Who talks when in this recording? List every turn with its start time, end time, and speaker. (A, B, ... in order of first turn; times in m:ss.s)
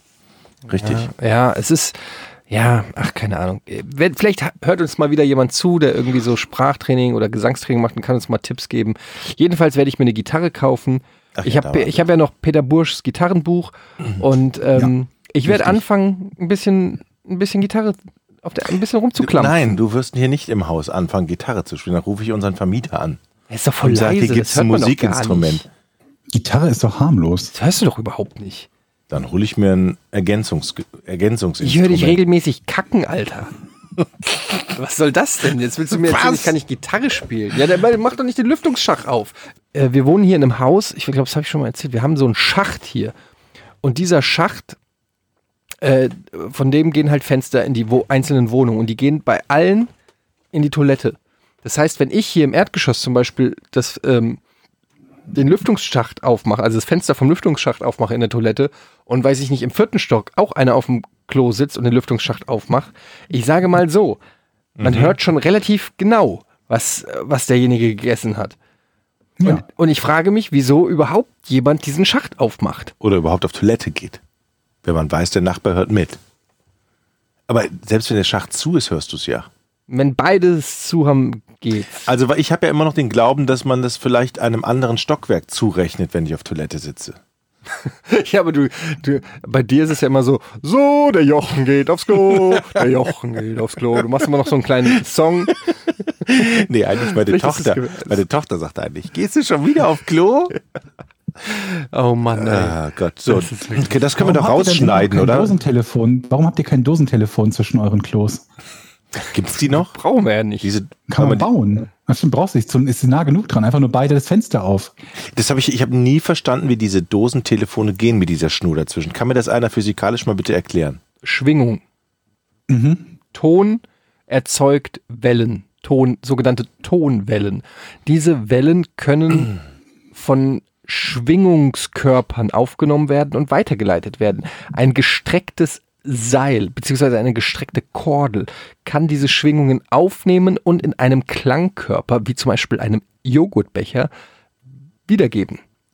0:00.7-0:01.1 A
0:00.7-0:19.7 B
0:11.4-0:12.0 A
0:15.4-0:15.8 C
0:19.2-0:23.2 A
0:23.5-0:25.6 B
0:23.8-0:25.6 A
0:26.3-0:27.5 C
0:27.5-0:28.7 B
0:29.1-0:32.2 A
0:31.6-0:33.5 B
0:34.6-0:43.1 B
0:36.1-0:36.5 A
0:43.8-0:44.8 B
0:45.8-0:49.9 B
0:50.5-0:54.4 B
0:55.3-1:04.2 B
1:04.8-1:05.2 A
1:04.8-1:08.6 B
1:09.4-1:09.6 C
1:09.4-1:12.9 B
1:13.0-1:14.2 A
1:14.8-1:16.2 A
1:17.5-1:19.5 A
1:19.9-1:22.1 B
1:22.0-1:27.2 A
1:27.8-1:35.6 B
1:36.2-1:40.6 A
1:36.3-1:38.2 B
1:41.4-1:44.1 B
1:42.4-1:45.6 A
1:44.2-1:48.4 C
1:49.2-1:50.0 A
1:49.7-1:50.7 B
1:50.6-1:51.5 A
1:51.1-1:54.9 C
1:55.3-2:01.0 A
2:01.2-2:01.8 B
2:02.7-2:03.1 C
2:03.3-2:09.6 B
2:10.1-2:24.1 B
2:25.1-2:25.6 B